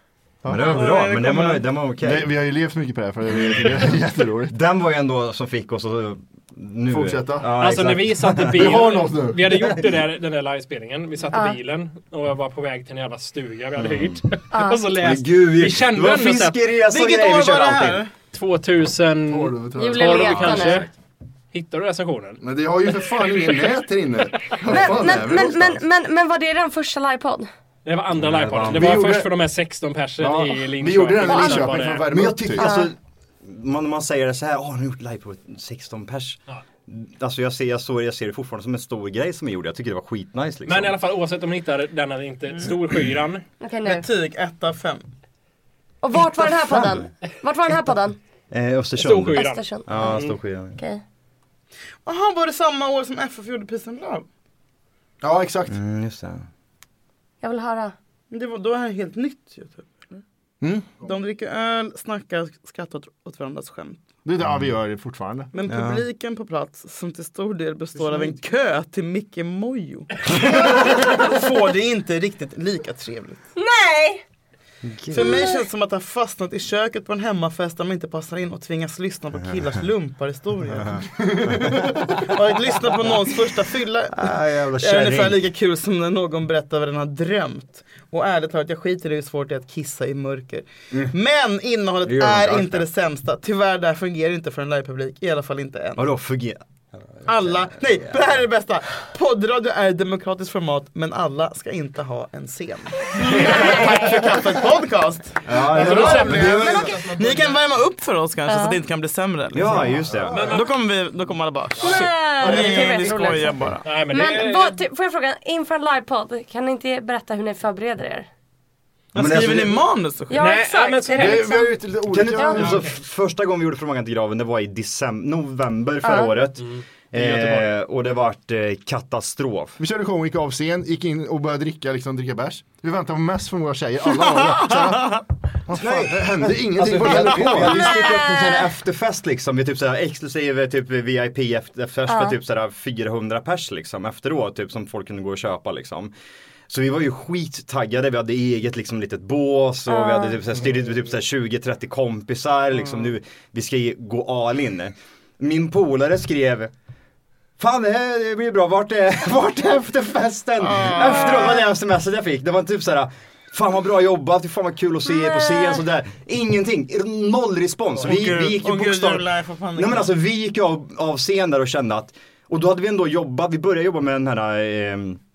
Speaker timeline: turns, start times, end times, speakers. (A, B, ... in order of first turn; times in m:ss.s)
0:00.4-0:00.7 A
0:00.5-0:02.3 B
0:00.6-0:01.6 C
0:02.0-0:04.5 A
0:04.5-0:08.8 B
0:06.9-0:07.5 A
0:07.6-0:16.6 D
0:08.4-0:09.4 A
0:11.3-0:11.6 E
0:13.8-0:14.2 B
0:14.5-0:14.8 E
0:15.0-0:18.0 B
0:16.9-0:18.1 C
0:18.3-0:20.9 D
0:19.3-0:20.6 A
0:19.8-0:20.8 E
0:20.4-0:20.8 B
0:21.5-0:22.4 D
0:22.4-0:25.8 A
0:23.3-0:23.6 D
0:24.6-0:27.5 E
0:27.8-0:32.0 D
0:28.1-0:29.1 B
0:28.6-0:29.3 A
0:30.2-0:32.7 A
0:31.2-0:31.9 E
0:32.1-0:41.0 B
0:32.6-0:32.9 E
0:40.7-0:43.4 D
0:43.6-0:44.1 E
0:43.8-0:45.0 C
0:46.0-0:48.2 E
0:48.5-0:50.8 B
0:49.0-0:50.3 D
0:49.3-0:50.2 E
0:50.8-0:51.0 E
0:52.0-0:54.3 C
0:55.2-0:55.8 A
0:55.7-0:56.5 B
0:57.4-0:57.9 E
0:58.3-1:00.2 C
1:00.6-1:01.0 A
1:01.0-1:04.0 C
1:04.2-1:05.5 A
1:04.4-1:04.7 B
1:05.5-1:13.4 C
1:05.7-1:06.0 B
1:13.6-1:14.2 E
1:14.8-1:15.3 B
1:15.1-1:21.0 C
1:15.2-1:15.6 E
1:21.2-1:22.0 A
1:21.5-1:21.9 B
1:22.2-1:36.0 C
1:24.1-1:25.4 B
1:32.0-1:32.9 B
1:36.0-1:37.7 B
1:37.2-1:53.9 C
1:43.2-1:44.2 E
1:45.4-1:47.0 B
1:45.7-1:47.5 D
1:48.5-1:48.8 E
1:49.5-1:50.5 B
1:50.3-1:50.7 D
1:51.8-1:53.6 E
1:52.5-1:53.1 A
1:53.8-1:54.8 D
1:54.1-1:58.3 E
1:59.1-2:00.4 C
1:59.1-1:59.8 B
2:00.3-2:02.6 E
2:00.3-2:01.5 D
2:01.2-2:02.9 A
2:02.1-2:09.8 B
2:02.6-2:02.9 D
2:06.0-2:06.3 E
2:06.6-2:07.7 D
2:09.8-2:18.0 A
2:14.1-2:15.2 C
2:15.7-2:26.1 B
2:17.6-2:18.7 E
2:22.1-2:22.4 E
2:26.7-2:36.7 B
2:29.9-2:30.4 E
2:37.6-2:55.2 B
2:40.6-2:41.6 C
2:45.1-2:45.8 E
2:48.0-2:50.1 C